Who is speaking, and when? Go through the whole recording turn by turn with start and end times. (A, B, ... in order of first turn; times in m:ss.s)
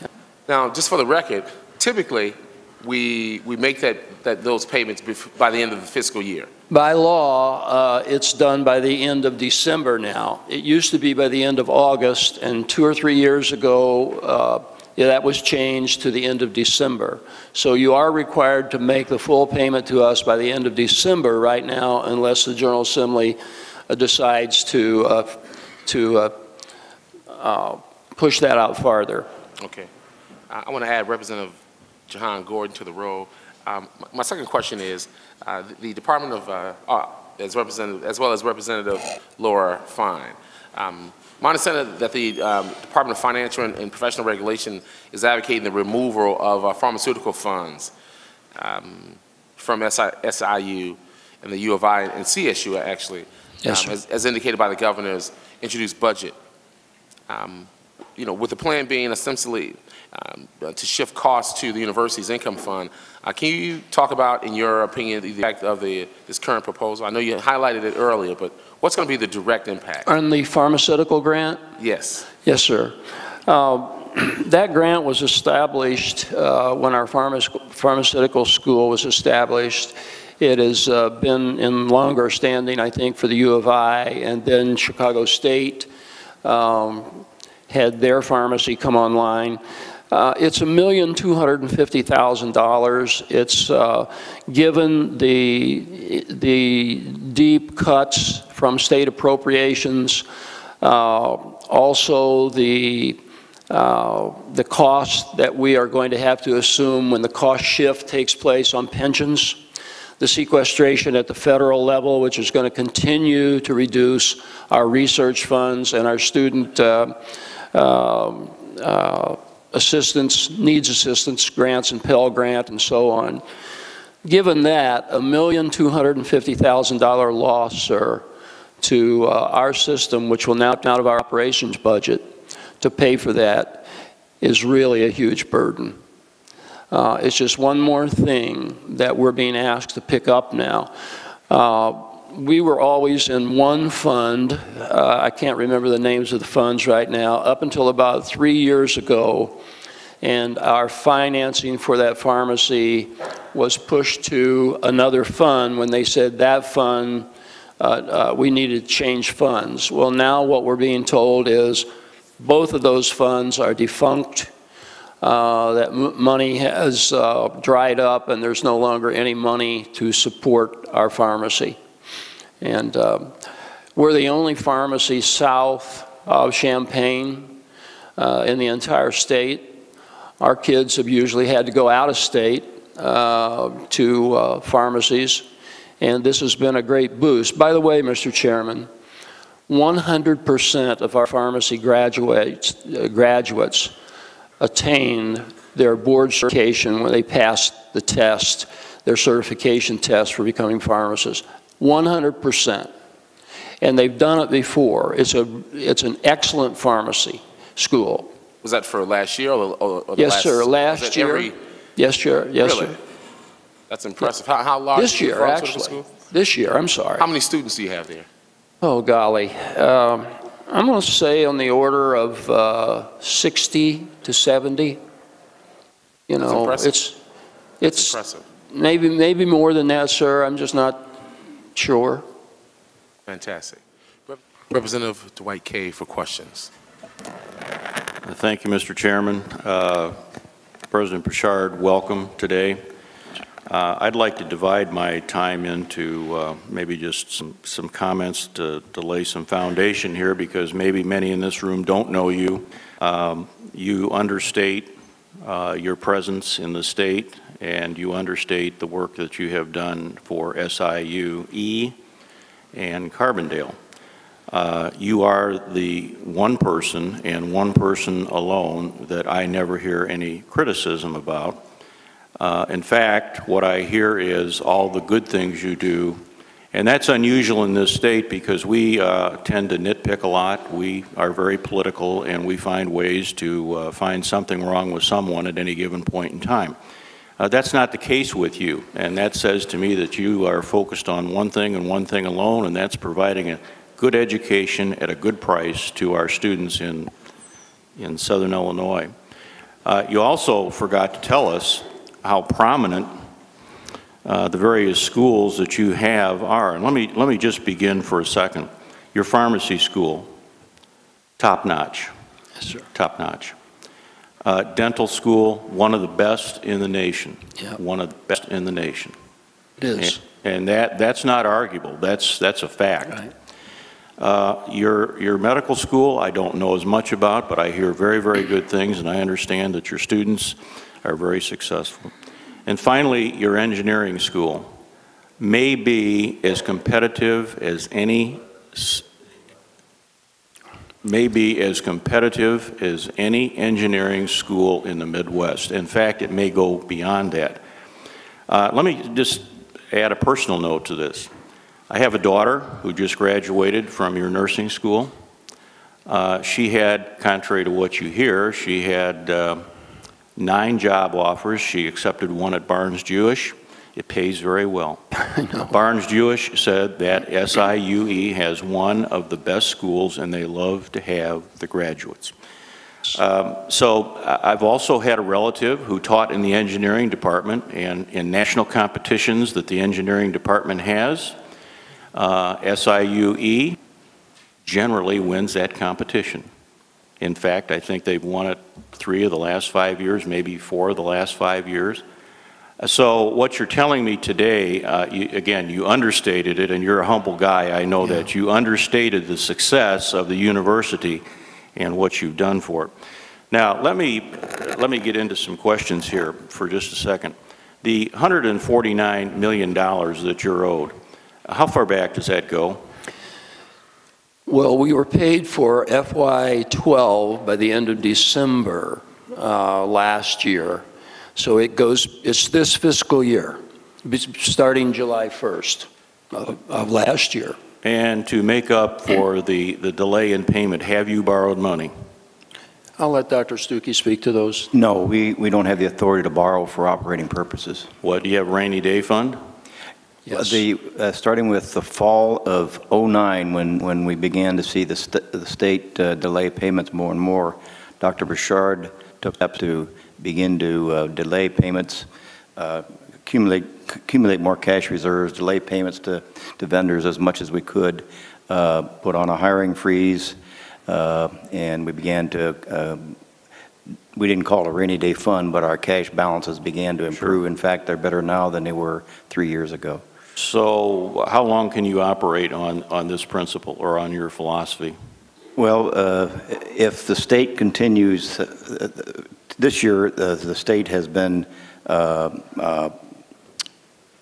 0:00.5-0:06.5 A
0:06.7-0:23.4 B
0:23.9-0:26.3 B
0:27.3-0:29.3 B
0:29.6-0:29.9 A
0:30.5-0:31.5 A
0:32.1-0:47.9 A
0:48.6-0:56.4 A
0:53.6-0:53.9 B
0:57.3-1:10.0 A
1:10.0-1:11.6 B
1:11.8-1:12.3 A
1:12.4-1:25.9 B
1:26.4-1:40.2 B
1:40.8-1:49.6 B
1:50.2-1:57.2 B
1:57.7-2:03.4 B
2:04.2-2:08.2 B
2:08.8-2:13.9 B
2:14.4-2:16.0 B
2:16.9-2:20.9 B
2:21.5-2:29.6 B
2:30.2-2:37.3 B
2:37.8-2:41.9 B
2:42.4-2:44.5 B
2:45.2-2:51.8 B
2:52.6-2:53.3 B
2:54.0-2:57.6 B
2:58.2-2:59.8 B
3:00.4-3:05.4 B
3:06.0-3:08.9 B
3:09.7-3:13.9 B
3:14.6-3:22.9 B
3:23.8-3:28.3 B
3:28.6-3:31.5 A
3:30.2-3:33.0 B
3:32.6-3:33.0 A
3:33.9-3:36.1 A
3:34.9-3:37.2 B
3:37.2-3:38.3 A
3:38.8-3:45.0 B
3:46.3-3:47.2 B
3:46.4-3:46.9 A
3:47.8-3:48.2 B
3:47.9-3:48.4 A
3:48.7-3:51.2 B
3:51.7-3:52.2 B
3:53.3-3:56.7 A
3:58.2-4:00.2 C
4:00.9-4:02.8 C
4:03.7-4:14.9 C
4:15.4-4:21.9 C
4:22.7-4:23.8 C
4:24.5-4:31.6 C
4:32.4-4:36.2 C
4:36.7-4:46.8 C
4:47.4-4:57.1 C
4:58.0-4:59.1 C
4:59.8-5:03.1 C
5:04.2-5:10.3 C
5:11.4-5:12.1 C
5:12.9-5:13.5 C
5:14.4-5:19.1 C
5:19.8-5:20.2 B
5:20.0-5:23.3 C
5:24.2-5:32.1 C
5:32.6-5:34.7 C
5:35.4-5:39.0 C
5:41.0-5:47.6 C
5:48.5-5:51.3 C
5:51.9-5:55.1 C
5:56.1-5:59.6 C
6:00.4-6:05.0 C
6:05.3-6:05.7 B
6:05.7-6:12.3 C
6:13.1-6:21.3 C
6:22.1-6:23.8 C
6:24.6-6:26.4 C
6:27.2-6:32.0 C
6:32.8-6:41.2 C
6:41.7-6:42.9 C
6:43.5-6:50.9 C
6:51.4-6:52.8 C
6:54.5-7:00.8 B
7:01.4-7:07.6 B
7:07.8-7:11.9 C
7:13.0-7:14.7 B
7:14.7-7:17.9 D
7:18.0-7:19.4 C
7:20.3-7:43.2 D
7:44.1-7:50.0 D
7:50.4-7:55.0 C
7:55.6-8:02.9 D